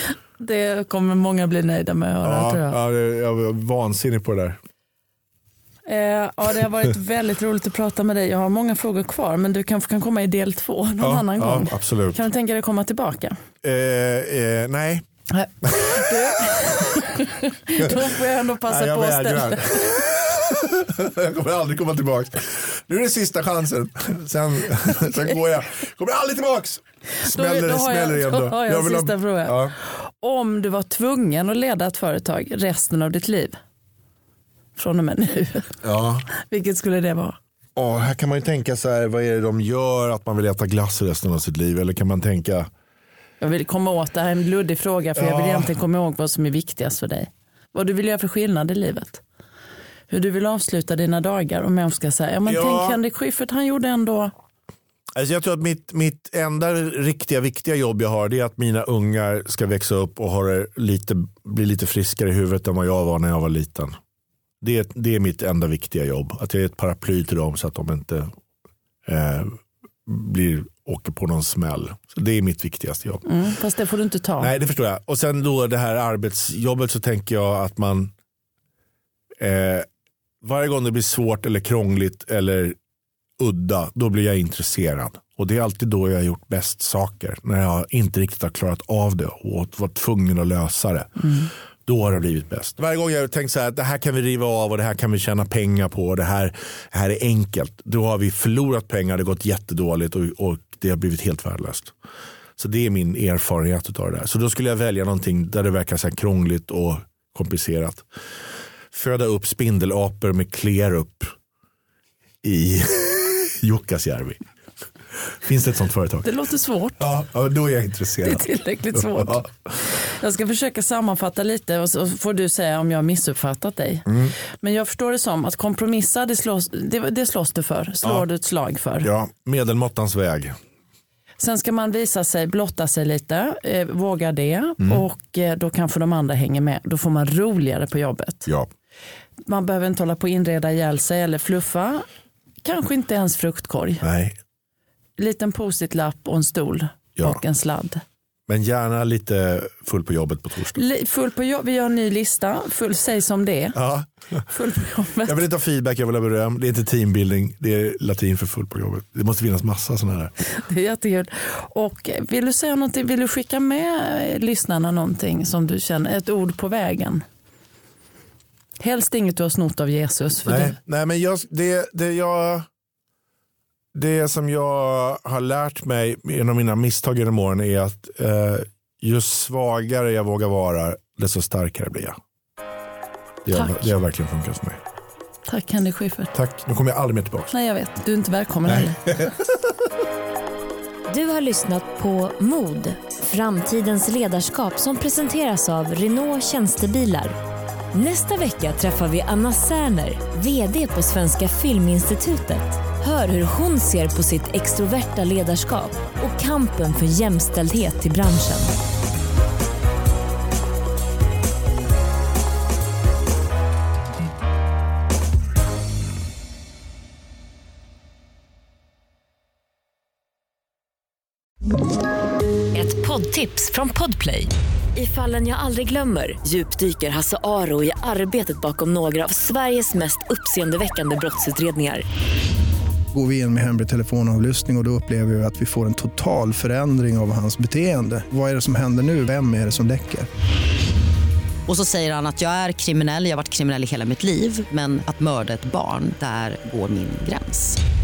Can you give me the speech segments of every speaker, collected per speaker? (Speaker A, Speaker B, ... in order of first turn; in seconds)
Speaker A: 0.4-2.8, 5.9-13.4, 15.3-20.0, 27.2-33.6, 34.8-35.8, 36.3-37.4, 43.4-49.2, 50.1-54.3, 73.3-74.5, 116.2-117.1, 118.2-129.1, 131.4-138.5, 139.5-142.1, 142.6-144.1, 145.2-148.0, 150.8-153.8, 154.5-155.4, 160.4-167.2, 168.8-170.8, 183.5-183.9, 185.5-186.3, 187.5-189.1
Speaker B: 2.2-4.6, 11.0-12.2, 13.6-15.1, 15.6-17.0, 17.7-29.7, 35.8-36.3, 37.8-42.7, 45.2-45.7, 52.5-53.0, 55.2-64.0, 64.6-68.3, 69.1-73.2, 74.4-78.1, 79.4-79.9, 80.4-82.8, 83.4-101.9, 102.6-108.1, 108.9-111.3, 112.4-114.4, 115.2-116.3, 117.0-119.5, 124.1-124.3, 129.0-130.6, 144.0-144.4, 148.5-150.8, 153.8-154.5, 155.2-160.3, 170.4-172.7, 173.9-182.2, 183.4-184.8, 186.3-187.5, 188.7-189.8
Speaker C: 191.1-197.4, 197.9-208.7, 222.7-232.1
Speaker D: 233.1-240.3
Speaker E: 241.7-247.8